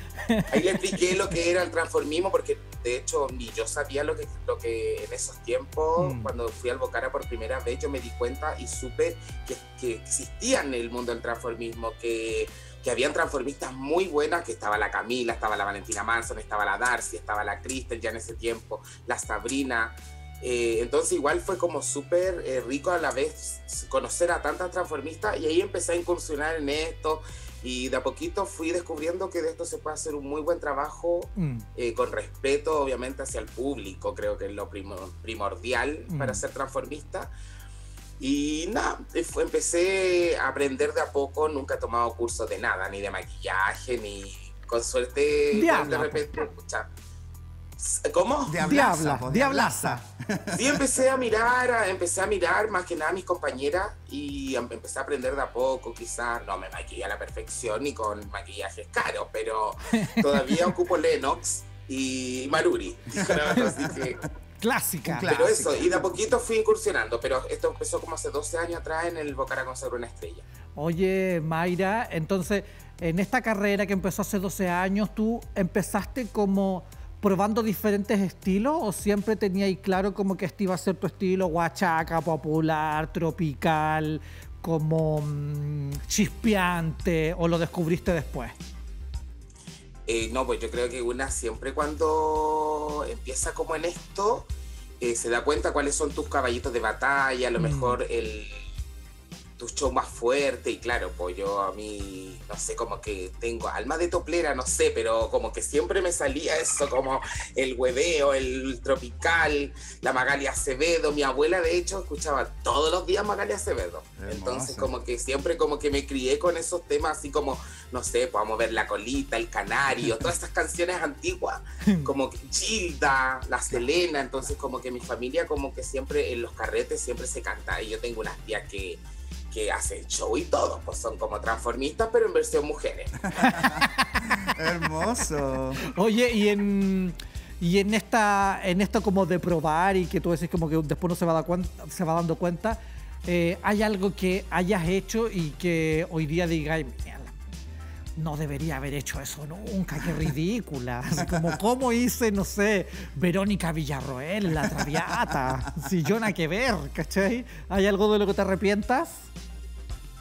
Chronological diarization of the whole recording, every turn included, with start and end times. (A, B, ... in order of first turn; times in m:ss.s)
0:00.3-0:00.6 A
0:00.5-0:37.3 B
0:06.0-0:06.3 A
0:31.4-0:31.6 A
0:36.1-0:36.4 A
0:38.2-0:46.9 B
0:45.5-0:46.4 A
0:47.8-0:48.7 B
0:48.5-0:50.8 C
0:48.6-0:50.0 A
0:50.5-1:04.2 B
0:59.9-1:00.7 A
1:03.2-1:03.9 C
1:04.6-1:05.3 A
1:05.0-1:06.2 C
1:05.3-1:10.4 B
1:10.8-1:28.6 A
1:30.1-1:34.5 B
1:35.0-1:38.7 B
1:37.6-1:38.0 A
1:39.6-2:09.0 B
1:54.2-1:54.9 C
2:09.5-2:13.4 B
2:13.3-2:13.9 C
2:13.4-2:14.0 A
2:14.4-2:15.8 C
2:15.9-2:27.4 A
2:28.2-2:39.3 A
2:34.8-2:35.8 C